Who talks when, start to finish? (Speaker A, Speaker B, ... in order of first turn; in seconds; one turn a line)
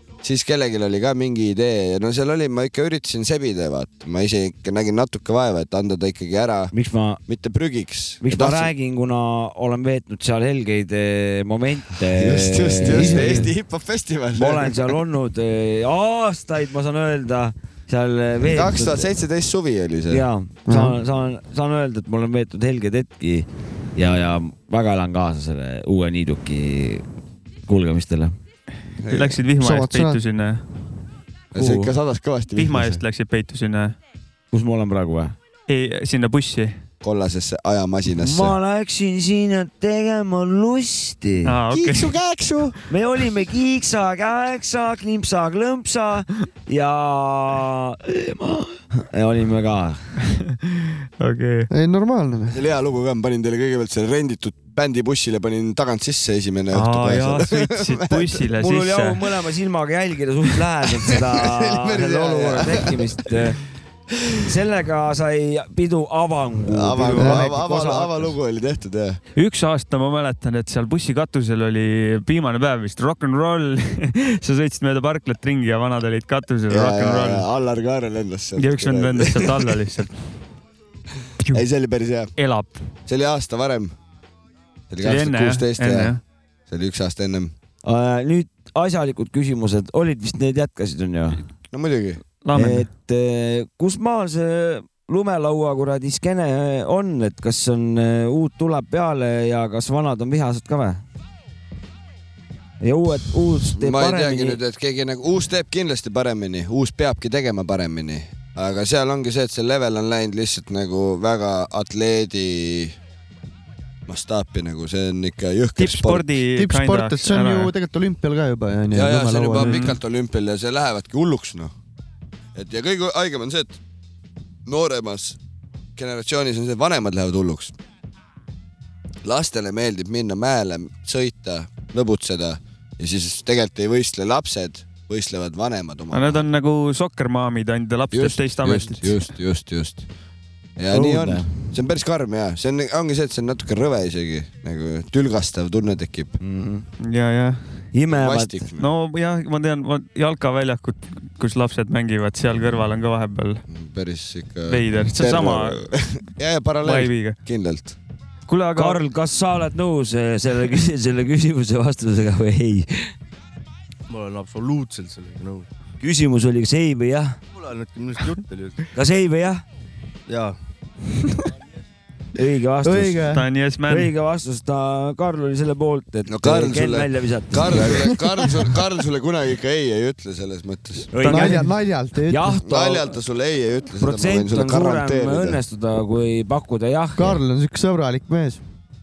Speaker A: 0.2-6.7
Speaker B: 6.7-7.2
Speaker A: 7.3-8.7
Speaker B: 8.2-13.4
Speaker A: 12.1-14.9
Speaker C: 12.8-13.5
Speaker B: 14.4-19.1
Speaker A: 18.4-20.3
Speaker B: 20.1-27.0
Speaker C: 20.7-20.9
Speaker B: 27.7-28.4
Speaker A: 29.0-29.4
Speaker D: 29.1-30.6
Speaker C: 29.6-30.2
Speaker B: 31.5-31.9
Speaker A: 31.5-33.0
Speaker D: 32.6-34.0
Speaker B: 34.5-35.4
Speaker D: 35.7-36.8
Speaker A: 37.0-38.5
Speaker B: 38.2-41.5
Speaker D: 41.5-42.1
Speaker A: 41.7-42.8
Speaker B: 42.9-50.0
Speaker D: 50.3-51.7
Speaker C: 51.7-52.6
Speaker A: 52.5-58.5
Speaker D: 56.7-59.2
Speaker B: 58.6-63.6
Speaker A: 61.3-63.0
Speaker B: 64.4-68.3
Speaker A: 66.7-69.2
Speaker D: 69.4-77.5
Speaker A: 76.7-79.8
Speaker D: 78.6-80.1
Speaker A: 81.5-82.3
Speaker D: 82.4-82.7
Speaker A: 83.1-83.9
Speaker A: 84.9-86.1
Speaker D: 85.0-86.2
Speaker A: 86.7-87.5
Speaker B: 87.8-91.4
Speaker A: 91.7-92.2
Speaker D: 92.4-92.9
Speaker B: 92.5-101.0
Speaker B: 102.8-104.6
Speaker A: 103.6-113.0
Speaker A: 114.1-116.3
Speaker D: 115.8-117.7
Speaker C: 116.6-119.8
Speaker A: 118.9-121.7
Speaker D: 119.6-120.0
Speaker A: 122.5-123.8
Speaker A: 124.7-125.4
Speaker A: 126.0-127.8
Speaker A: 129.2-136.4
Speaker D: 136.1-139.2
Speaker A: 138.1-140.1
Speaker A: 140.8-146.4
Speaker B: 140.9-141.7
Speaker B: 146.4-146.9
Speaker D: 147.0-147.6
Speaker B: 147.9-148.6
Speaker A: 148.1-148.9
Speaker D: 148.8-153.6
Speaker A: 153.7-158.0
Speaker D: 154.7-155.9
Speaker D: 156.8-157.4
Speaker D: 158.5-159.0
Speaker B: 158.8-163.1
Speaker E: 164.1-165.7
Speaker B: 166.0-167.4
Speaker E: 167.5-168.9
Speaker B: 168.9-169.6
Speaker E: 170.3-170.6
Speaker B: 172.3-173.3
Speaker C: 172.8-173.4
Speaker D: 173.3-174.1
Speaker B: 173.9-178.1
Speaker A: 176.3-181.1
Speaker B: 181.1-181.7
Speaker D: 181.2-181.7
Speaker C: 181.2-182.5
Speaker B: 182.3-183.1
Speaker A: 182.6-185.6
Speaker B: 184.0-187.4
Speaker C: 187.2-188.6